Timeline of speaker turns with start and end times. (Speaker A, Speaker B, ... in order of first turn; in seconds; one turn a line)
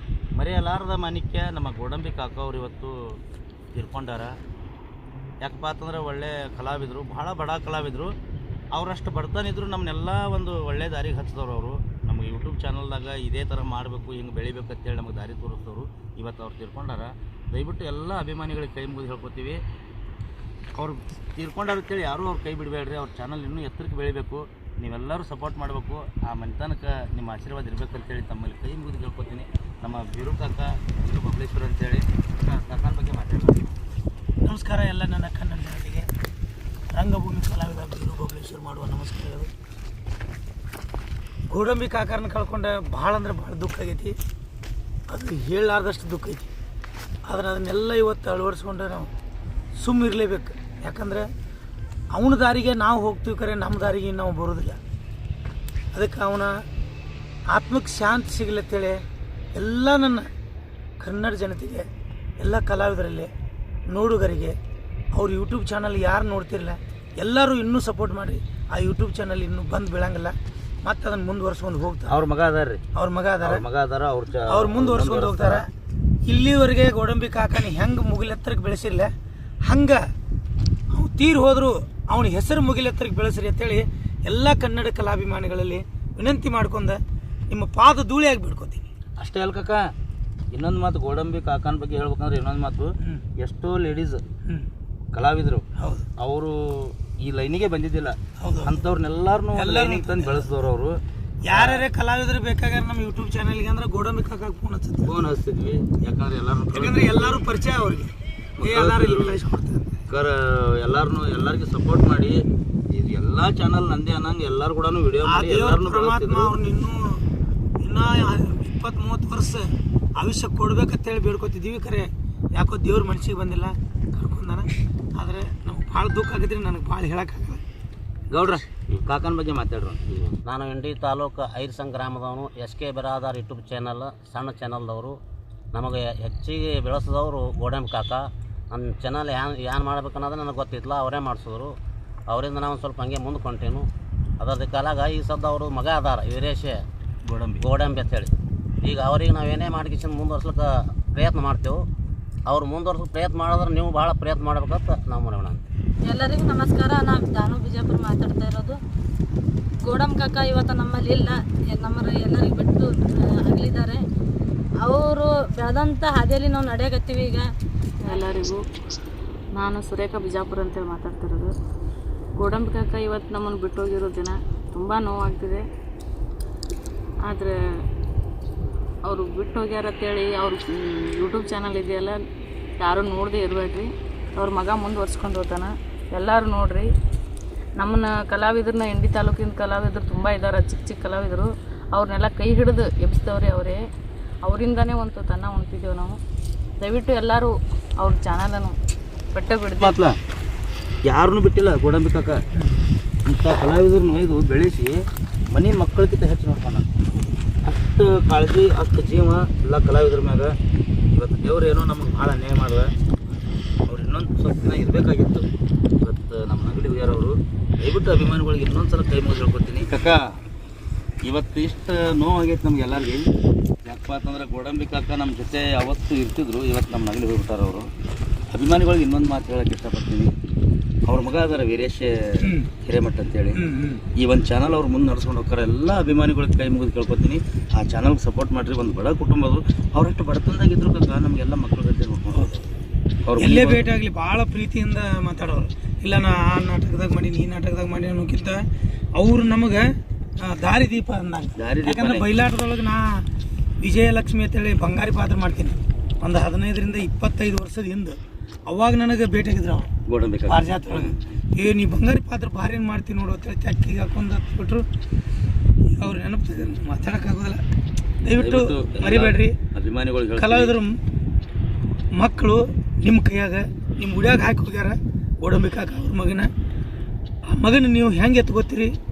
Speaker A: 0.3-3.1
Speaker A: 3.7-4.3
Speaker A: 5.4-8.1
Speaker A: 8.7-19.6
Speaker A: 20.7-33.7
Speaker B: 34.4-36.1
Speaker B: 36.9-39.5
Speaker B: 41.5-44.1
Speaker B: 45.1-46.5
Speaker B: 47.2-49.1
Speaker B: 49.8-51.3
Speaker B: 52.1-54.8
Speaker B: 55.9-56.6
Speaker B: 57.5-59.0
Speaker B: 59.5-60.3
Speaker B: 61.0-61.9
Speaker B: 62.4-63.3
Speaker B: 63.9-64.5
Speaker B: 65.1-72.1
Speaker A: 72.1-72.8
Speaker B: 72.9-73.6
Speaker A: 73.4-75.7
Speaker B: 74.5-75.7
Speaker B: 76.2-79.1
Speaker B: 79.6-80.0
Speaker B: 80.9-88.9
Speaker A: 89.2-89.9
Speaker A: 90.5-94.2
Speaker A: 95.1-95.7
Speaker B: 95.8-96.0
Speaker A: 96.2-101.0
Speaker B: 98.4-98.8
Speaker B: 99.5-100.5
Speaker B: 101.4-105.1
Speaker A: 101.5-101.8
Speaker A: 105.0-107.4
Speaker B: 106.7-109.8
Speaker A: 108.6-109.4
Speaker A: 110.1-116.5
Speaker B: 115.2-117.2
Speaker B: 117.8-127.6
Speaker A: 128.3-130.4
Speaker C: 130.4-135.2
Speaker C: 135.7-141.8
Speaker C: 142.3-143.9
Speaker C: 144.4-146.8
Speaker A: 147.2-147.7
Speaker C: 147.6-148.3
Speaker C: 148.8-151.8
Speaker C: 152.5-155.6
Speaker D: 156.1-158.8
Speaker D: 159.9-164.0
Speaker D: 164.8-167.5
Speaker E: 168.0-168.6
Speaker E: 169.6-171.5
Speaker E: 172.4-175.6
Speaker E: 177.2-177.6
Speaker E: 179.1-182.2
Speaker E: 182.8-186.9
Speaker E: 187.8-193.8
Speaker E: 194.4-196.2
Speaker E: 196.8-198.8
Speaker E: 199.3-200.0
Speaker A: 199.8-200.2
Speaker A: 201.0-202.4
Speaker A: 203.2-206.8
Speaker A: 207.6-210.5
Speaker A: 211.1-212.9
Speaker A: 213.8-215.5
Speaker A: 216.0-220.2
Speaker A: 221.2-223.3
Speaker A: 223.8-227.9
Speaker A: 228.5-230.3
Speaker A: 231.1-233.6
Speaker B: 232.4-232.7
Speaker B: 233.5-234.0
Speaker A: 234.2-242.6
Speaker B: 242.3-242.6
Speaker A: 243.2-243.9
Speaker B: 243.4-248.6
Speaker B: 249.2-249.9
Speaker B: 250.4-253.2
Speaker A: 251.6-252.3
Speaker B: 253.8-259.9
Speaker A: 260.1-261.1
Speaker B: 260.5-264.8
Speaker B: 265.9-267.6
Speaker B: 268.2-269.5
Speaker A: 268.4-270.8
Speaker B: 270.4-270.9
Speaker B: 272.2-276.5
Speaker B: 277.5-278.9